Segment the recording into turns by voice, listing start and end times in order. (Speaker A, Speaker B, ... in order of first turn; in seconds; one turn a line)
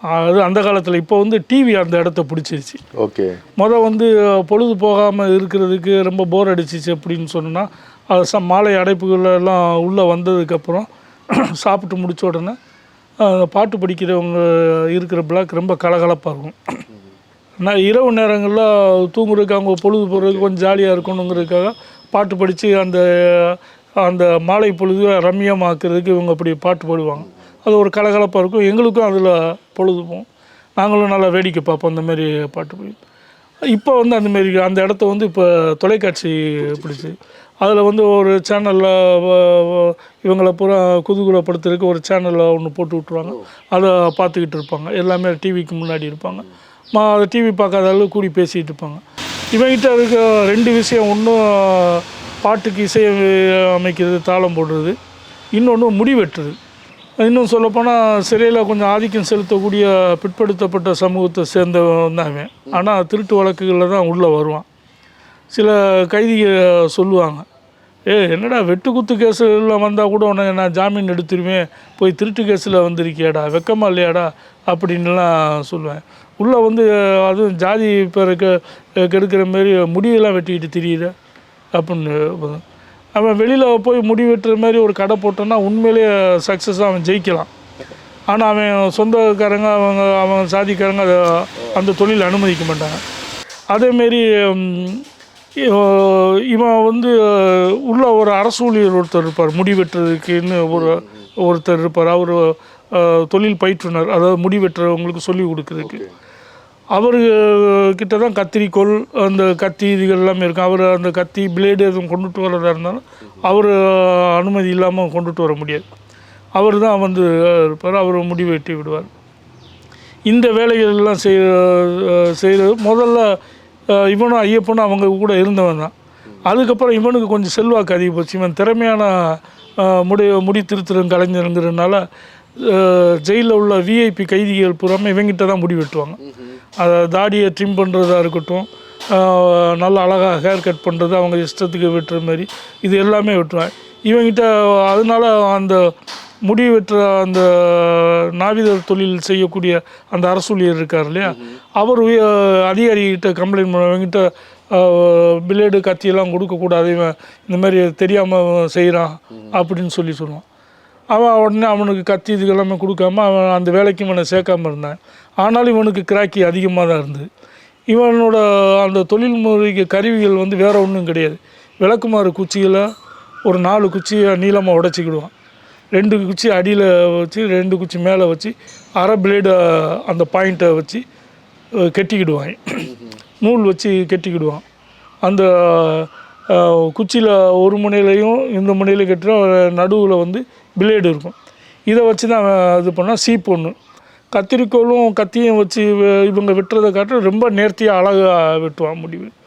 Speaker A: 0.1-2.8
Speaker B: 3.0-3.4
Speaker A: 3.6-12.6
Speaker A: 13.2-16.8
Speaker A: 17.6-30.3
Speaker B: 20.3-20.6
Speaker A: 30.8-33.0
Speaker A: 33.7-55.0
Speaker B: 36.6-37.1
Speaker A: 55.5-56.6
Speaker A: 57.2-64.7
Speaker B: 62.7-62.9
Speaker A: 65.5-67.5
Speaker A: 68.1-81.1
Speaker A: 81.8-82.6
Speaker A: 83.2-87.5
Speaker A: 88.3-93.0
Speaker A: 93.7-95.0
Speaker A: 95.6-106.0
Speaker B: 100.7-101.1
Speaker B: 105.8-106.1
Speaker A: 107.0-115.9
Speaker A: 116.6-119.1
Speaker A: 120.3-125.9
Speaker A: 126.4-132.1
Speaker A: 132.6-136.2
Speaker B: 136.3-136.6
Speaker A: 136.8-145.9
Speaker A: 146.5-160.4
Speaker B: 151.3-151.6
Speaker A: 161.1-167.3
Speaker A: 167.9-172.9
Speaker A: 173.5-175.3
Speaker A: 175.9-181.0
Speaker A: 181.9-184.6
Speaker A: 185.2-191.3
Speaker A: 191.9-193.8
Speaker A: 194.3-199.3